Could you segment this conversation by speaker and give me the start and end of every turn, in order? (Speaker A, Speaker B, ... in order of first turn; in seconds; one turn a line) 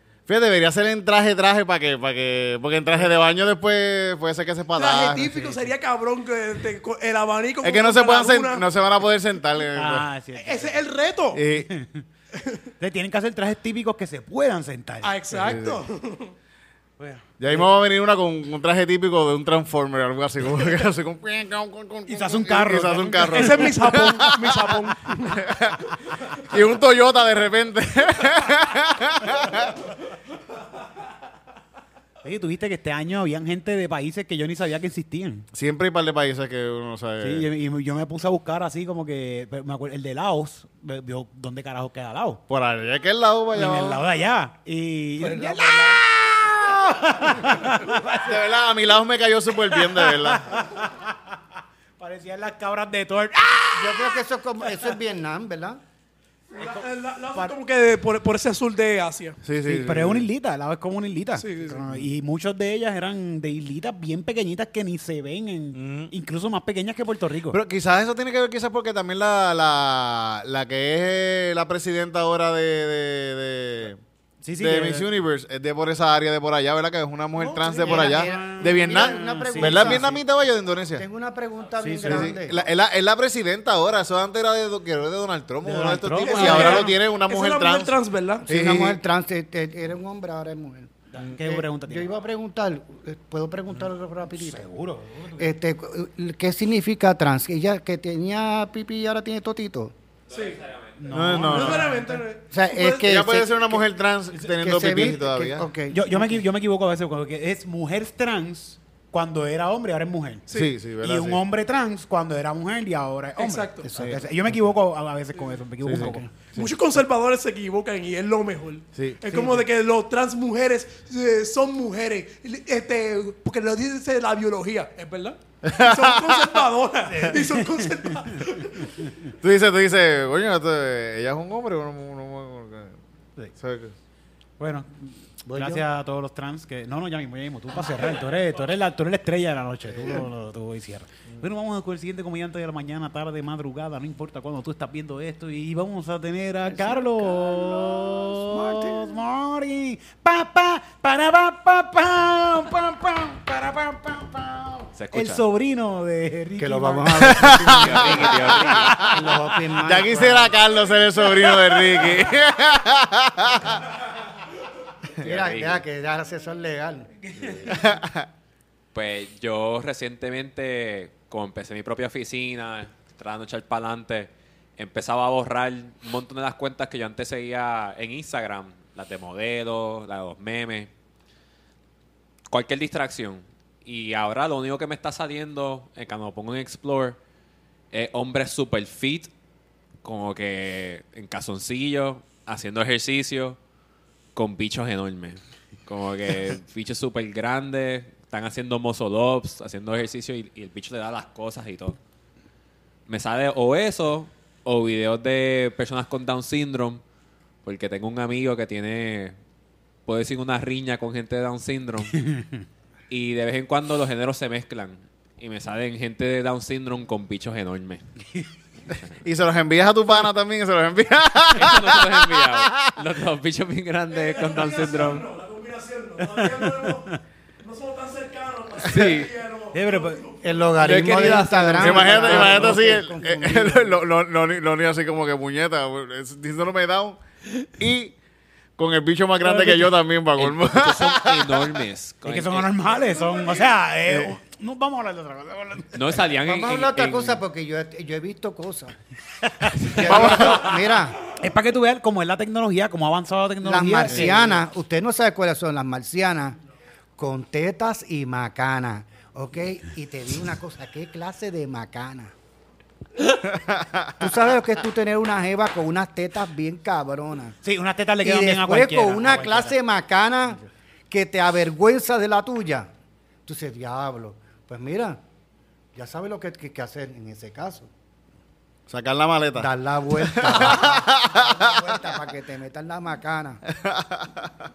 Speaker A: 0.3-5.7
Speaker B: 4.8-8.7
Speaker A: 7.6-10.1
Speaker C: 9.8-10.8
Speaker B: 10.4-11.4
Speaker A: 11.3-11.7
Speaker C: 11.5-12.1
Speaker B: 12.3-12.6
Speaker C: 12.8-15.6
Speaker B: 15.0-16.3
Speaker A: 15.4-15.8
Speaker C: 17.0-17.6
Speaker A: 17.4-24.8
Speaker C: 22.1-23.8
Speaker B: 23.3-25.4
Speaker A: 25.3-25.9
Speaker A: 26.4-29.8
Speaker C: 32.2-35.5
Speaker A: 35.5-37.5
Speaker C: 37.2-42.4
Speaker A: 42.5-44.0
Speaker C: 43.5-48.4
Speaker B: 45.4-46.0
Speaker A: 48.2-50.6
Speaker C: 49.6-51.4
Speaker C: 52.0-54.2
Speaker D: 53.8-55.8
Speaker B: 56.5-59.4
Speaker C: 56.6-57.6
Speaker A: 59.4-60.3
Speaker C: 59.6-67.6
Speaker B: 61.4-61.9
Speaker A: 65.8-66.1
Speaker A: 67.5-74.0
Speaker C: 74.4-75.1
Speaker A: 74.6-81.1
Speaker C: 77.4-80.2
Speaker D: 77.6-80.2
Speaker D: 80.9-82.7
Speaker C: 81.8-82.4
Speaker A: 82.0-87.9
Speaker C: 85.6-87.0
Speaker B: 86.2-88.5
Speaker D: 88.4-94.7
Speaker A: 88.5-89.0
Speaker C: 91.1-92.1
Speaker C: 94.4-95.5
Speaker D: 95.4-99.9
Speaker E: 100.3-101.1
Speaker B: 100.3-100.6
Speaker C: 101.0-102.2
Speaker A: 101.1-102.0
Speaker B: 101.4-103.0
Speaker D: 102.5-103.8
Speaker A: 103.0-105.7
Speaker D: 104.4-106.0
Speaker C: 105.9-110.5
Speaker A: 110.5-111.4
Speaker C: 111.0-116.3
Speaker B: 113.4-113.8
Speaker D: 113.8-114.5
Speaker A: 115.8-116.7
Speaker D: 116.0-116.3
Speaker B: 116.6-128.9
Speaker C: 119.3-119.6
Speaker A: 125.7-126.6
Speaker C: 127.1-129.1
Speaker A: 129.3-133.0
Speaker A: 133.6-133.9
Speaker C: 134.6-159.4
Speaker D: 135.4-135.8
Speaker D: 146.7-149.2
Speaker E: 155.0-155.4
Speaker D: 156.6-160.6
Speaker A: 157.2-159.0
Speaker E: 157.6-159.0
Speaker A: 159.8-163.8
Speaker E: 165.2-165.8
Speaker D: 165.2-167.4
Speaker C: 167.3-167.7
Speaker A: 167.6-168.3
Speaker E: 168.9-180.9
Speaker E: 182.5-187.2
Speaker E: 187.9-189.3
Speaker E: 190.0-193.6
Speaker E: 194.4-202.0
Speaker E: 203.1-207.0
Speaker E: 207.6-209.4
Speaker E: 210.1-212.2
Speaker C: 212.2-212.7
Speaker E: 213.1-218.0
Speaker A: 219.1-222.9
Speaker E: 221.6-225.2
Speaker B: 224.1-230.8
Speaker C: 226.3-227.2
Speaker C: 228.9-230.2
Speaker E: 228.9-229.3
Speaker D: 230.4-234.0
Speaker C: 230.8-232.8
Speaker E: 231.1-231.4
Speaker A: 231.8-237.2
Speaker A: 237.8-238.2
Speaker A: 238.8-241.8
Speaker C: 239.4-239.9
Speaker E: 240.4-242.7
Speaker C: 242.2-246.2
Speaker E: 245.9-247.4
Speaker D: 246.4-249.0
Speaker C: 249.4-250.6
Speaker D: 249.9-251.2
Speaker A: 250.0-250.8
Speaker C: 251.2-254.6
Speaker D: 253.6-256.6
Speaker D: 257.2-262.4
Speaker A: 263.5-264.1
Speaker D: 264.2-267.6
Speaker C: 267.6-269.8
Speaker D: 268.2-272.9
Speaker D: 273.5-275.2
Speaker D: 275.9-277.9
Speaker A: 278.9-281.8
Speaker D: 279.6-283.6
Speaker A: 283.7-284.5